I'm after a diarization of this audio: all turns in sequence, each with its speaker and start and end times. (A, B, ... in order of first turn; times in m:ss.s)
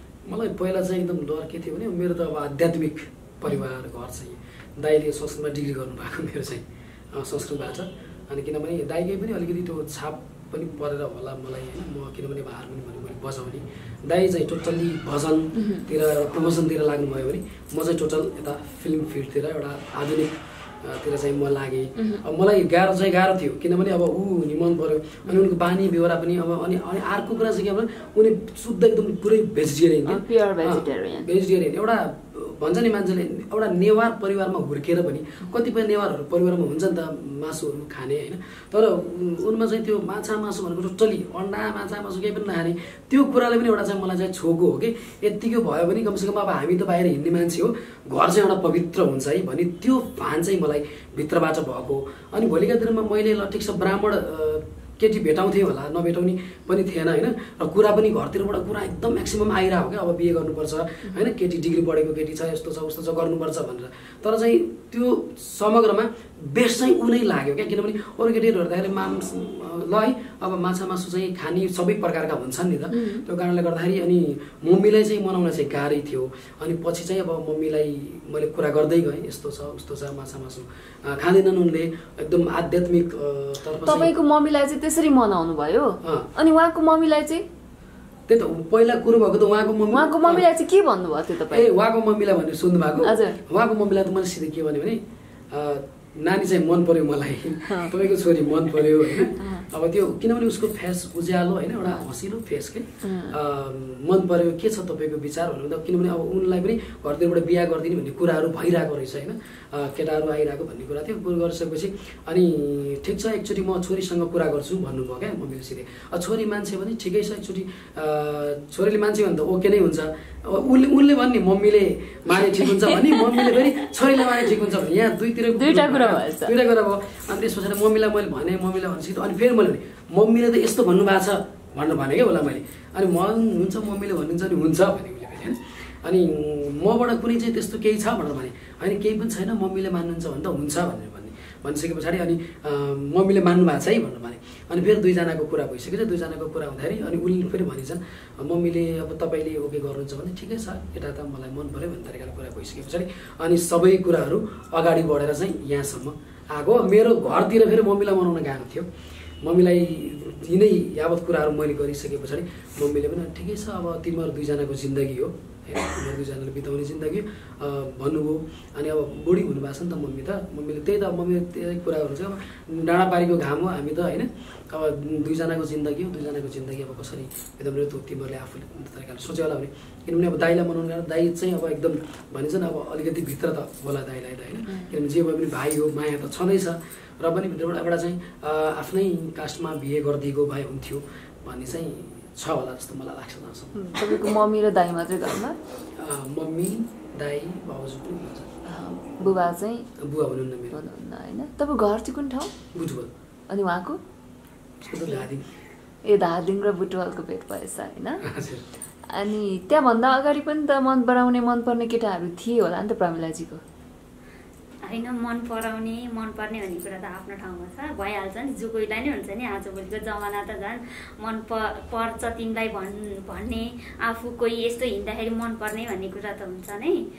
0:00.2-1:24.1 A
0:15.6-0:15.9 B
0:22.0-0:22.2 B
0:30.1-0:31.3 B
1:12.9-1:13.2 B
1:23.8-1:27.4 B
1:26.0-1:26.3 A
1:28.3-1:30.4 A
1:29.9-1:31.7 B
1:31.5-1:35.0 A
1:33.0-1:33.4 B
1:35.5-2:38.9 A
1:37.7-1:38.0 B
1:39.4-1:39.6 B
1:43.0-1:43.4 B
2:02.3-2:03.6 B
2:05.6-2:06.5 B
2:39.4-3:14.0 A
3:13.8-3:15.6 B
3:16.0-3:18.5 A
3:18.6-3:19.9 B
3:20.0-3:20.8 A
3:20.7-3:22.5 B
3:22.7-3:23.1 A
3:23.5-3:24.0 B
3:24.8-3:25.5 A
3:26.0-3:28.2 B
3:28.2-3:28.6 A
3:29.1-3:33.6 B
3:34.8-3:47.0 C